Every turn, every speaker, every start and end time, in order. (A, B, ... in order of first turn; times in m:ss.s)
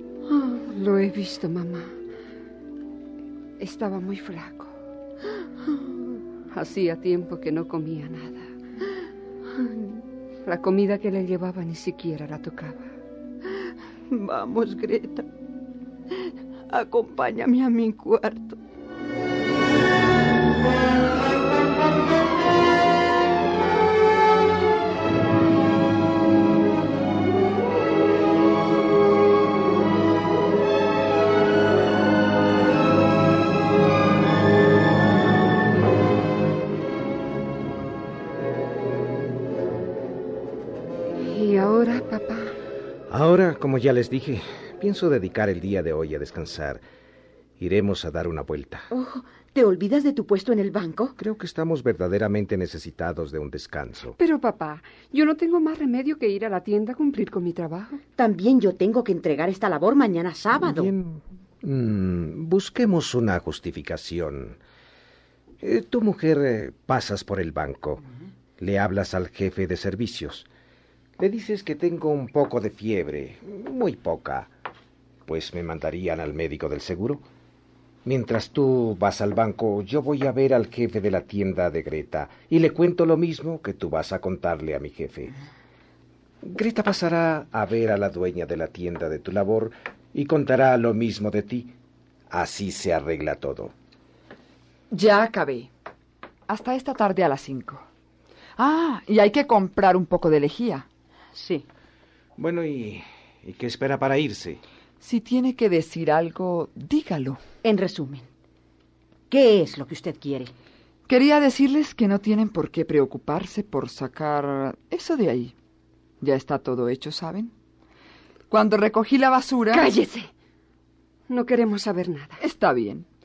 0:00.3-0:01.9 A
0:03.6-0:04.7 A
0:06.5-0:08.5 A
0:09.6-0:09.9 B
0:10.4-0:12.9 A
0:14.1-0:15.3 B
0:16.7-0:18.6 B
0:41.2-0:42.6 A
0:43.1-0:46.8 C
0:47.6-0:48.9 C
0:48.9-0:51.2 B
0:51.2-0:54.2 C
0:54.2-0:58.0 A
0:58.2-1:00.9 B
1:00.6-1:04.6 C
1:05.6-1:08.0 C
1:08.6-1:10.5 C
1:11.2-1:14.5 C
1:15.3-1:17.2 C
1:18.0-1:25.4 C
1:26.4-1:31.7 C
1:32.3-1:33.7 C
1:34.9-1:35.7 D
1:36.5-1:37.9 D
1:38.6-1:40.9 D
1:41.4-1:41.7 B
1:42.4-1:44.6 C
1:45.0-1:47.4 D
1:47.6-1:48.3 B
1:49.3-1:50.5 B
1:51.1-1:55.6 D
1:56.2-1:57.5 D
1:58.5-1:59.9 D
1:59.7-2:00.3 A
2:01.3-2:02.4 A
2:02.4-2:03.1 D